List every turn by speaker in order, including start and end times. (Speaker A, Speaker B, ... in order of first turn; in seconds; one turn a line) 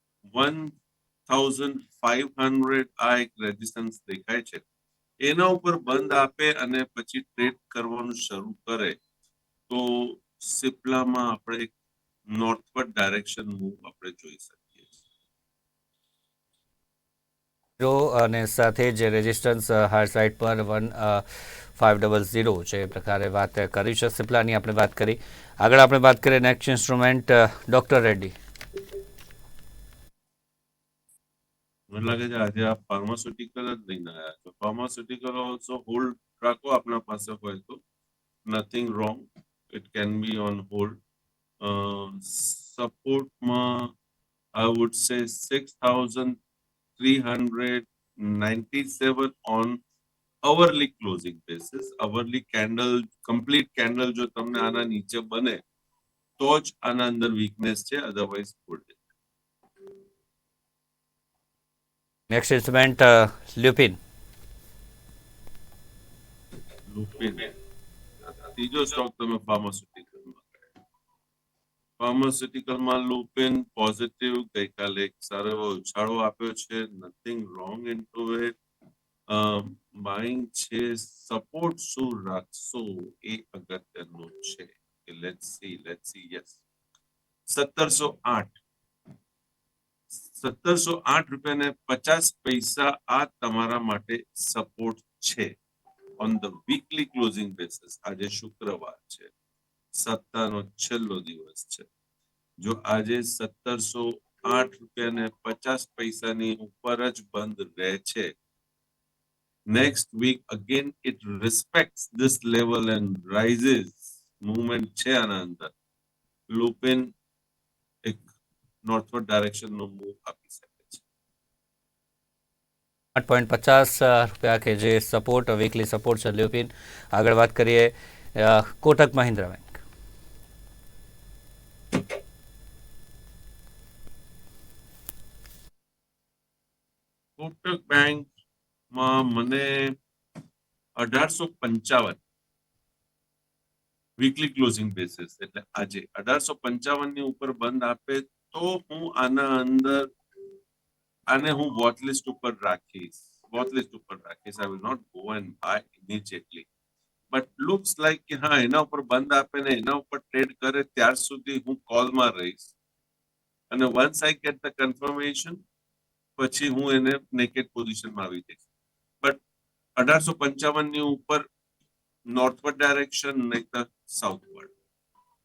Speaker A: 0.3-0.8
Speaker A: 1.3-4.6
Speaker A: 5.2-9.0
Speaker A: 9.7-11.7
Speaker A: 12.3-15.0
Speaker B: 17.8-21.2
Speaker B: 21.8-28.4
Speaker A: 31.9-37.8
Speaker A: 38.5-41.0
Speaker A: 41.6-43.9
Speaker A: 44.5-46.4
Speaker A: 47.0-49.8
Speaker A: 50.4-55.6
Speaker A: 56.4-59.0
Speaker B: 62.3-64.0
Speaker A: 66.9-67.5
Speaker A: 68.4-70.7
Speaker A: 72.0-78.5
Speaker A: 79.3-86.6
Speaker A: 87.5-88.5
Speaker A: 90.3-95.5
Speaker A: 96.2-99.3
Speaker A: 100.0-101.9
Speaker A: 102.6-108.3
Speaker A: 109.7-115.7
Speaker A: 116.5-117.1
Speaker A: 118.0-118.3
Speaker A: 118.8-121.0
Speaker B: 123.2-129.8
Speaker A: 137.4-138.3
Speaker A: 138.9-140.0
Speaker A: 141.0-142.2
Speaker A: 144.2-150.1
Speaker A: 151.3-156.7
Speaker A: 157.3-162.7
Speaker A: 163.7-165.6
Speaker A: 166.4-168.6
Speaker A: 170.0-171.5
Speaker A: 172.3-174.7